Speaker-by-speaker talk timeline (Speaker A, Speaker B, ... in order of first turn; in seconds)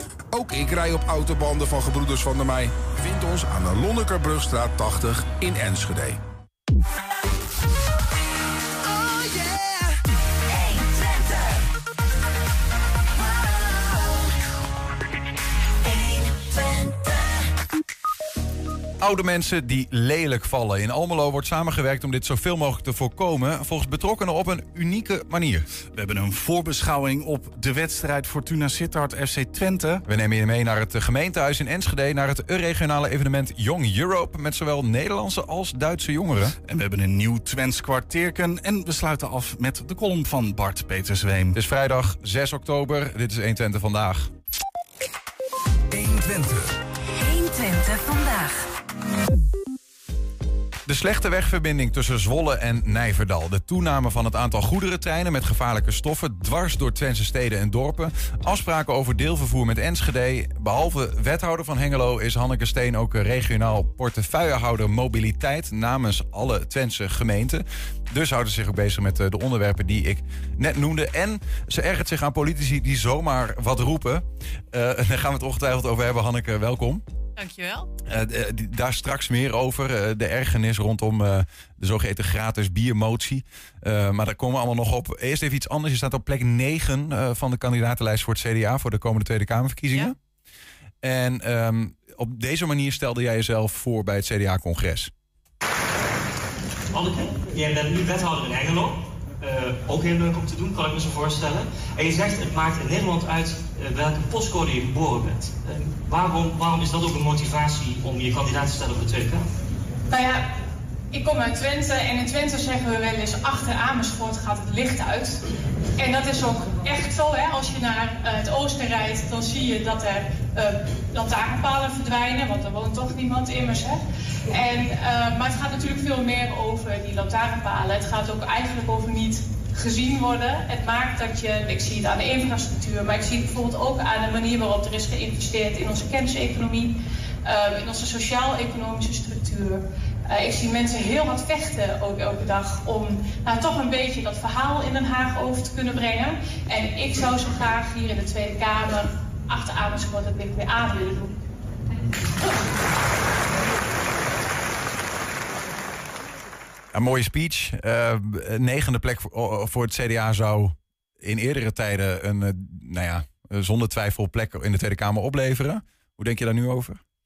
Speaker A: 0.3-6.2
Speaker B: 10.6-11.3, 47.1-48.7
Speaker C: 19.0-25.6, 30.1-36.5, 41.5-44.3, 50.9-77.0, 78.0-90.1, 91.0-95.1, 156.9-167.0
Speaker D: 25.9-30.0, 36.7-41.5, 45.9-46.8
Speaker E: 77.3-77.9, 110.1-110.5, 111.1-115.4, 116.0-151.3
Speaker F: 96.9-109.5